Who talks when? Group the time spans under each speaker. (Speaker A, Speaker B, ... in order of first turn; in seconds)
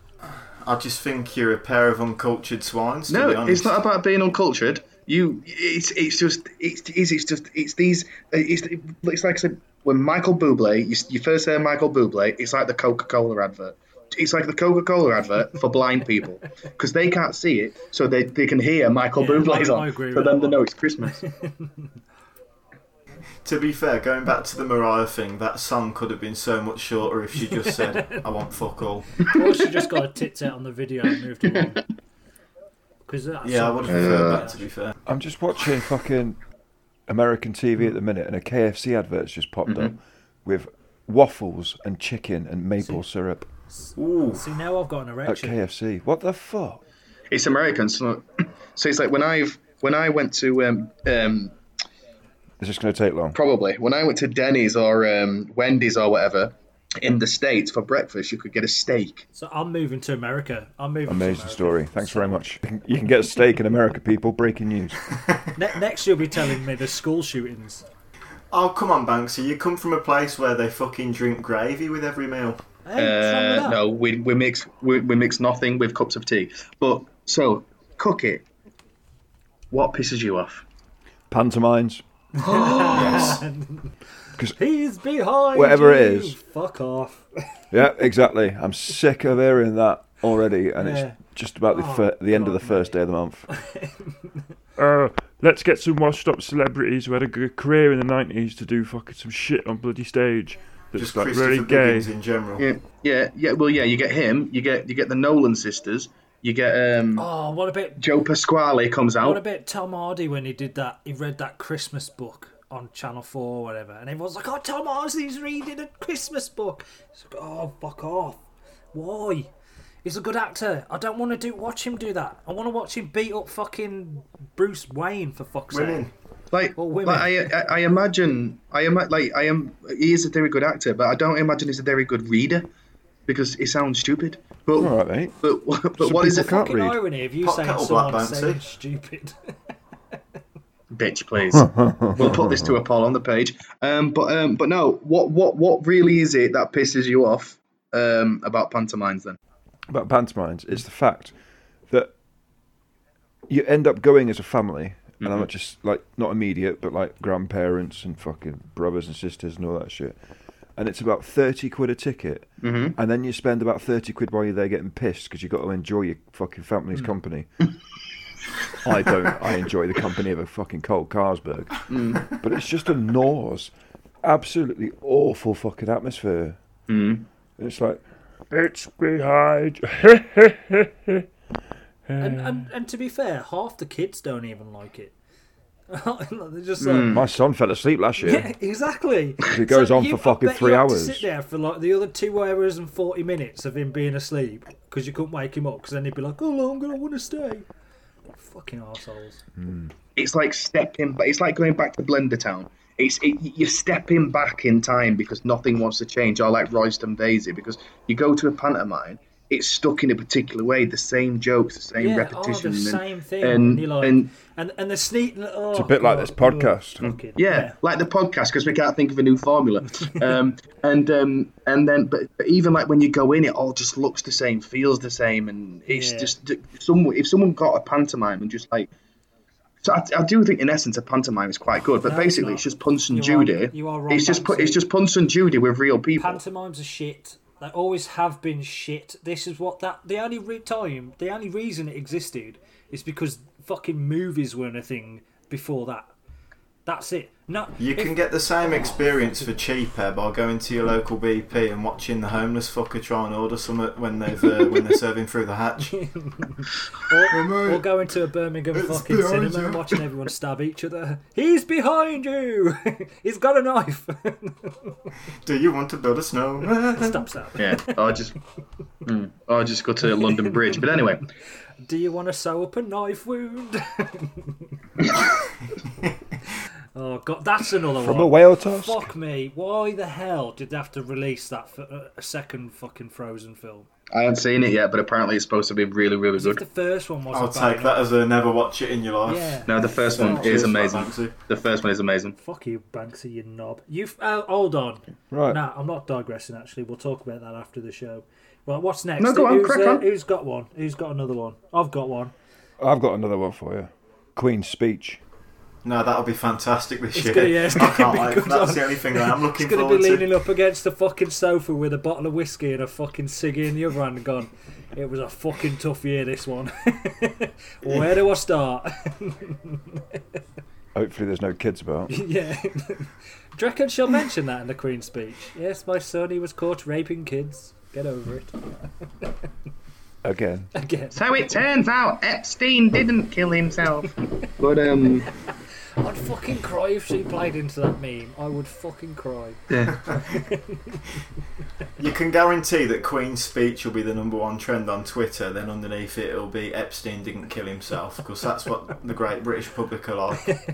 Speaker A: 0.6-3.8, 23.4-29.3, 33.4-35.0, 44.0-44.4, 68.5-72.6, 82.9-83.4, 100.9-102.7, 125.7-126.1, 137.4-138.6, 247.8-256.0, 265.4-267.2, 287.3-291.4, 305.9-310.3, 342.0-350.6
Speaker B: 3.1-21.2, 33.9-34.5, 39.7-39.9, 47.3-51.5, 53.3-59.2, 73.0-78.4, 79.7-80.6, 82.5-83.4, 102.6-107.3, 108.0-109.4, 126.5-132.7, 133.3-136.5, 140.9-149.4, 155.2-155.5, 162.6-163.0, 171.9-172.3, 176.9-177.2, 186.8-187.2, 200.2-214.3, 217.0-228.9, 229.8-236.4, 267.6-268.4, 269.1-271.3, 284.1-286.6, 289.7-292.4, 299.2-300.1, 331.1-335.3, 339.7-340.1
Speaker C: 19.1-21.9, 27.5-28.2, 29.2-31.8, 33.0-34.6, 43.7-45.6, 59.4-62.4, 65.5-67.8, 72.8-73.8, 82.4-83.9, 84.5-87.6, 90.8-91.2, 91.7-93.0, 93.5-94.4, 107.2-108.0, 109.2-118.4, 118.9-119.5, 120.0-126.1, 126.8-127.5, 136.2-139.5, 182.2-185.1, 185.9-187.1, 188.2-197.7, 198.4-199.4, 212.0-217.8, 225.9-226.3, 232.0-234.8, 236.2-246.1, 246.9-248.2, 255.9-264.9, 266.8-268.1, 271.8-275.2, 276.9-283.9, 286.4-288.1, 289.2-290.7, 292.4-302.3, 307.1-320.2, 322.1-328.6, 330.7-331.2, 336.0-341.2
Speaker D: 35.0-36.4, 37.1-43.5, 45.2-46.8, 52.6-53.4, 61.1-65.0, 81.3-82.0, 85.5-86.4, 87.7-93.5, 134.8-135.4, 136.0-137.0, 141.5-142.8, 149.9-151.3, 153.5-160.2, 160.8-167.6, 168.8-173.7, 174.2-176.6, 177.6-178.0, 187.1-188.5, 189.5-191.2, 199.6-199.9, 215.7-217.0, 278.0-279.1, 295.3-295.6, 302.8-305.2, 320.9-322.1, 330.2-330.7
Speaker E: 94.8-102.1, 178.5-181.1